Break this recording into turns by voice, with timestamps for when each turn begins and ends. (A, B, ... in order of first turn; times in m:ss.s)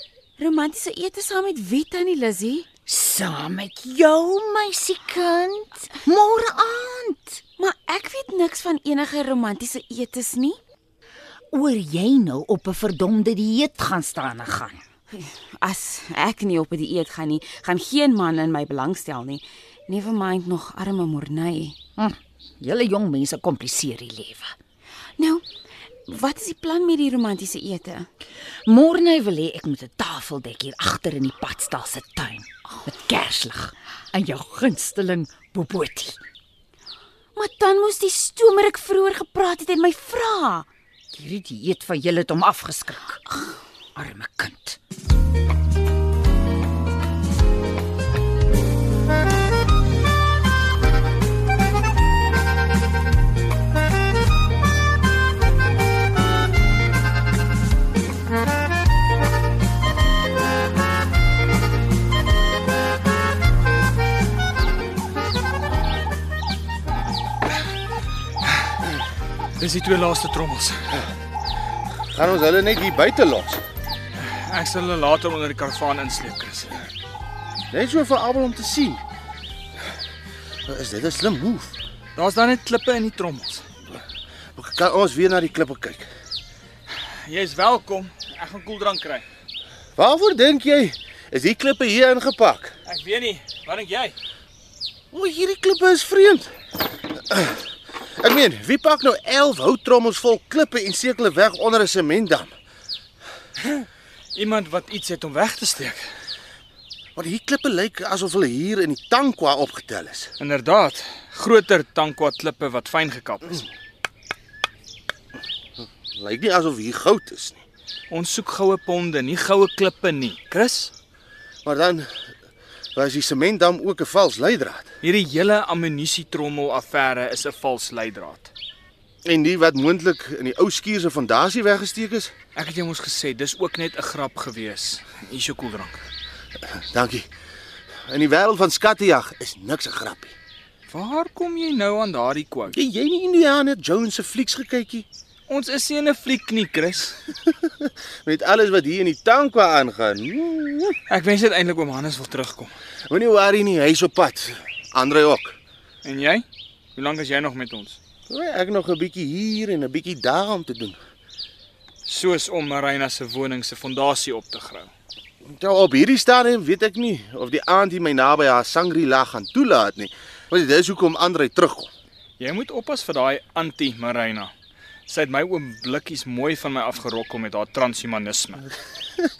0:00.4-0:02.7 A
0:02.9-0:07.4 B
0:07.6-0:10.6 A
0:11.5-0:14.8 B
0:15.1-0:21.8 A
0:22.0-0:24.5 B
0:25.2-0:25.4 A
0:26.1-0:28.1 A
0:28.6-0:36.2 B
0:37.3-0:40.7 A
0:41.1-0:43.2 B
0:43.9-0:44.8 B
1:09.6-1:10.9 C
1:12.1-1:13.6 D
1:14.2-1:16.8 C
1:17.7-1:19.0 D
1:20.7-1:21.8 D
1:22.2-1:23.6 C
1:24.6-1:26.1 D
1:26.9-1:29.2 C
1:30.0-1:32.7 D
1:32.8-1:34.2 C
1:35.1-1:36.5 D
1:37.3-1:37.6 D
1:38.2-1:42.5 D
1:43.6-1:46.0 C
1:47.1-1:50.3 D
1:50.4-1:53.6 C
1:56.1-1:57.6 D
1:58.1-2:00.9 C
2:01.6-2:02.1 D
2:03.0-2:04.9 D
2:05.0-2:08.5 C
2:09.2-2:12.3 D
2:12.6-2:16.0 C
2:16.7-2:17.3 D
2:18.1-2:20.3 D
2:20.9-2:22.7 C
2:22.7-2:25.1 D
2:25.5-2:27.2 C
2:28.2-2:31.0 D
2:31.1-2:32.7 C
2:33.1-2:35.6 D
2:36.0-2:36.4 C
2:37.0-2:38.0 C
2:38.3-2:41.0 D
2:42.1-2:44.9 C
2:45.4-2:51.9 D
2:52.4-2:54.5 C
2:55.1-2:58.6 C